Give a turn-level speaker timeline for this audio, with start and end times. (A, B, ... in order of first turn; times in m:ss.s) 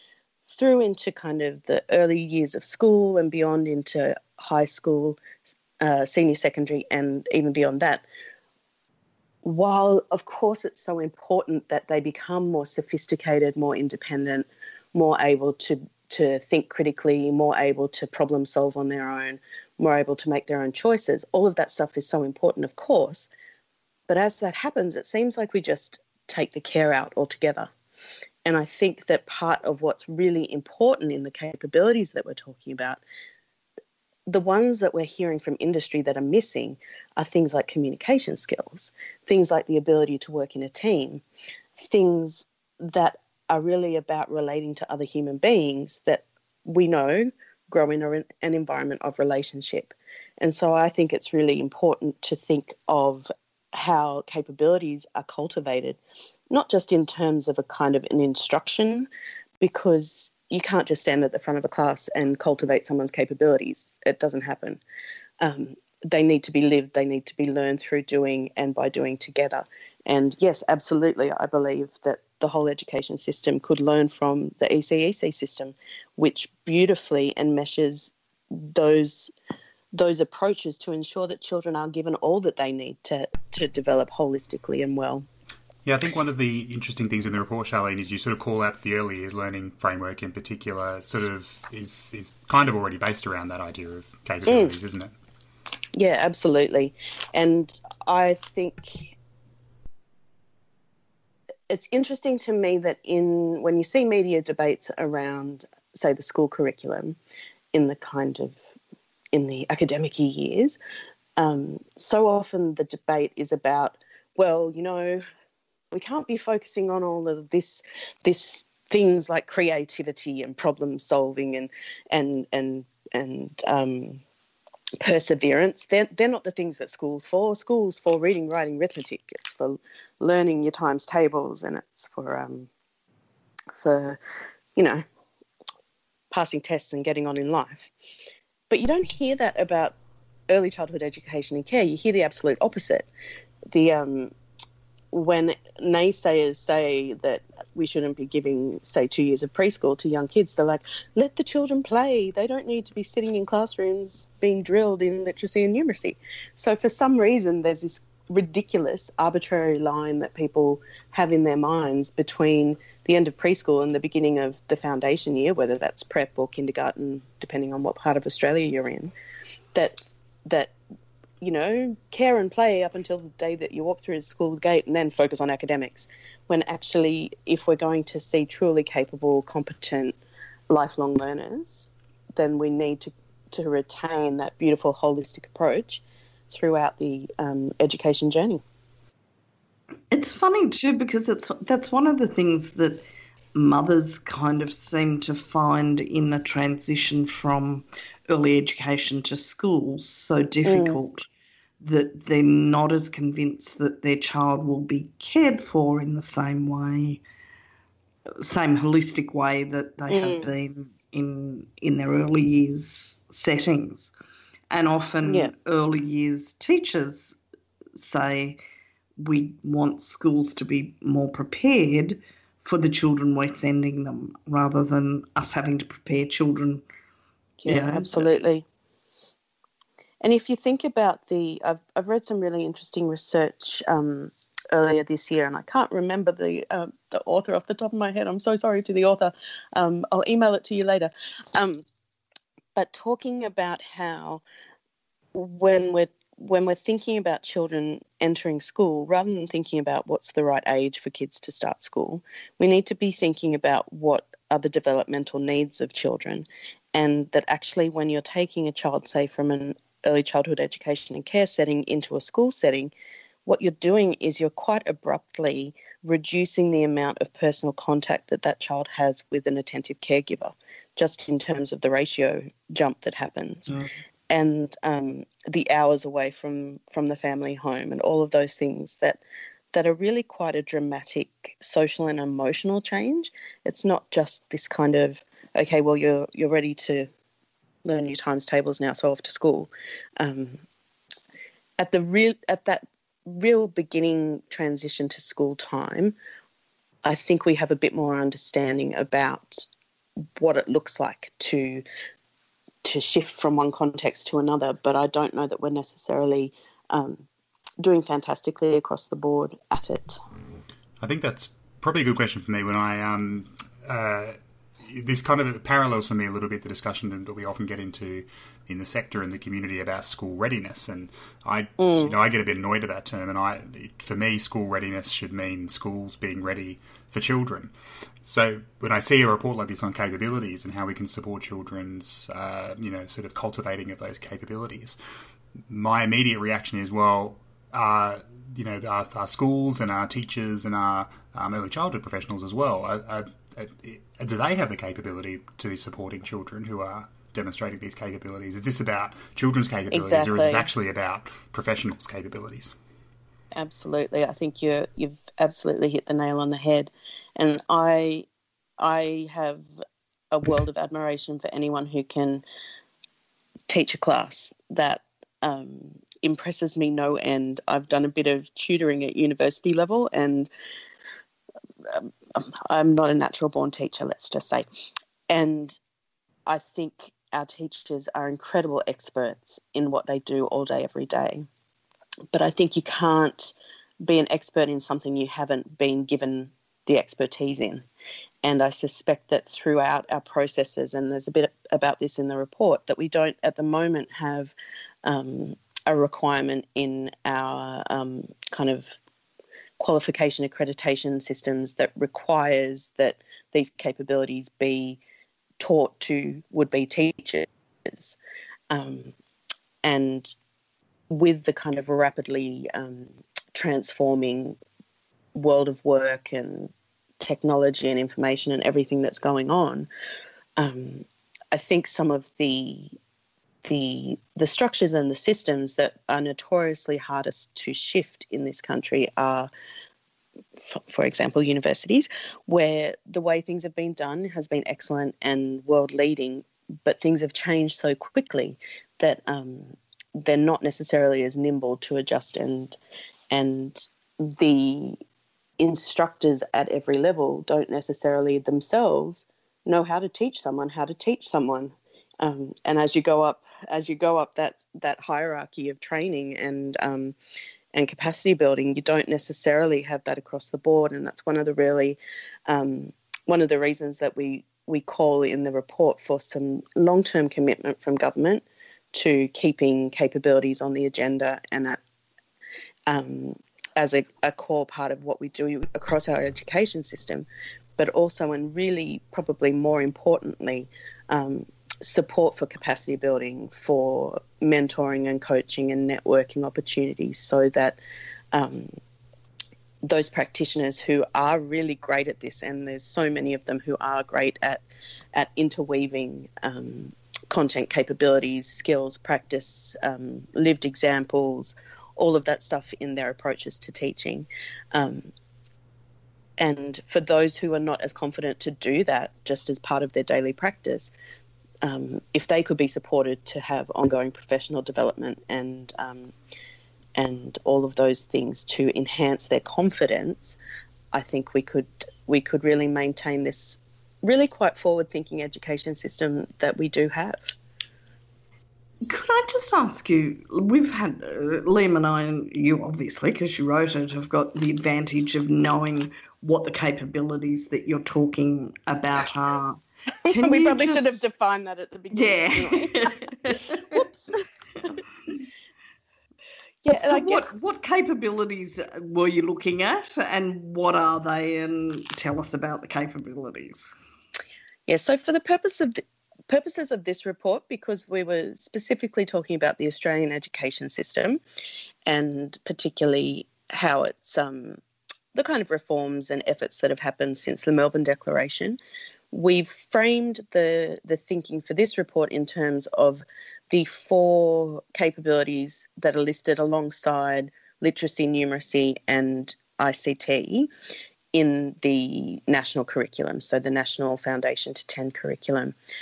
0:00.5-0:05.2 A
0:05.8-0:08.0 A
0:09.4-0:23.3 A
0:24.1-0:27.7 A
0:28.4-0:33.0 A
0:34.3-0:41.2 A
0:41.8-0:56.0 A
0:56.5-0:59.1 A
0:59.6-1:04.8 A
1:05.4-1:19.3 A
1:19.9-1:25.3 A
1:25.8-1:35.1 B
1:34.5-1:34.7 A
1:36.0-1:39.2 A
1:41.7-1:47.2 A
1:47.7-1:48.6 A
1:49.3-1:50.8 A
1:51.4-1:55.2 A
1:55.9-2:04.2 A
2:05.0-2:12.7 A
2:13.8-2:14.2 A
2:14.8-2:15.0 A
2:16.3-2:17.9 A
2:18.7-2:20.0 A
2:20.5-2:23.1 A
2:23.7-2:24.3 A
2:25.1-2:49.1 A
2:49.7-2:50.7 A
2:51.4-3:00.2 A
3:00.7-3:08.6 A
3:10.1-3:21.2 C
3:20.6-3:21.0 A
3:21.8-3:27.2 C
3:28.4-3:34.1 C
3:30.1-3:30.5 A
3:34.7-3:37.4 C
3:35.2-3:35.5 A
3:38.0-3:38.6 C
3:39.2-3:46.8 C
3:47.6-3:48.6 A
3:47.7-3:48.3 C
3:50.2-4:01.8 A
4:02.8-4:04.4 A
4:05.3-4:22.9 A
4:23.4-4:33.7 A
4:34.3-4:39.2 A
4:39.7-4:47.1 A
4:47.8-4:50.6 A
4:51.8-4:56.2 A
4:57.0-4:59.7 A
5:00.4-5:01.8 A
5:02.8-5:07.3 A
5:07.8-5:10.2 A
5:11.0-5:27.7 B
5:21.8-5:22.1 A
5:28.2-5:35.0 B
5:35.7-5:52.7 B
5:49.9-5:50.7 A
5:53.5-5:58.3 A
5:58.8-5:59.7 A
6:00.3-6:02.4 A
6:03.7-6:10.5 A
6:11.9-6:14.7 A
6:15.3-6:15.8 A
6:16.5-6:21.5 A
6:22.3-6:27.8 A
6:28.4-6:34.5 A
6:35.0-6:39.0 A
6:39.8-6:45.0 A
6:45.6-6:48.2 A
6:48.7-6:49.1 A
6:49.8-6:50.3 A
6:51.1-6:54.6 A
6:55.3-6:59.9 A
7:00.6-7:03.0 A
7:03.6-7:09.5 A
7:10.6-7:22.8 A
7:23.3-7:25.0 A
7:25.6-7:37.2 A
7:37.7-7:51.8 A
7:52.9-8:07.8 A
8:08.3-8:08.8 A
8:09.8-8:14.6 A
8:15.2-8:25.1 A
8:26.4-8:30.9 A
8:31.6-8:36.1 A
8:37.0-8:40.4 A
8:40.9-8:47.3 A
8:48.8-9:01.0 C
9:00.1-9:04.2 A
9:01.9-9:03.8 C
9:06.6-9:07.4 A
9:06.7-9:13.7 C
9:14.7-9:21.2 A
9:21.9-9:24.6 A
9:25.1-9:28.6 A
9:29.1-9:40.5 A
9:41.1-9:45.5 A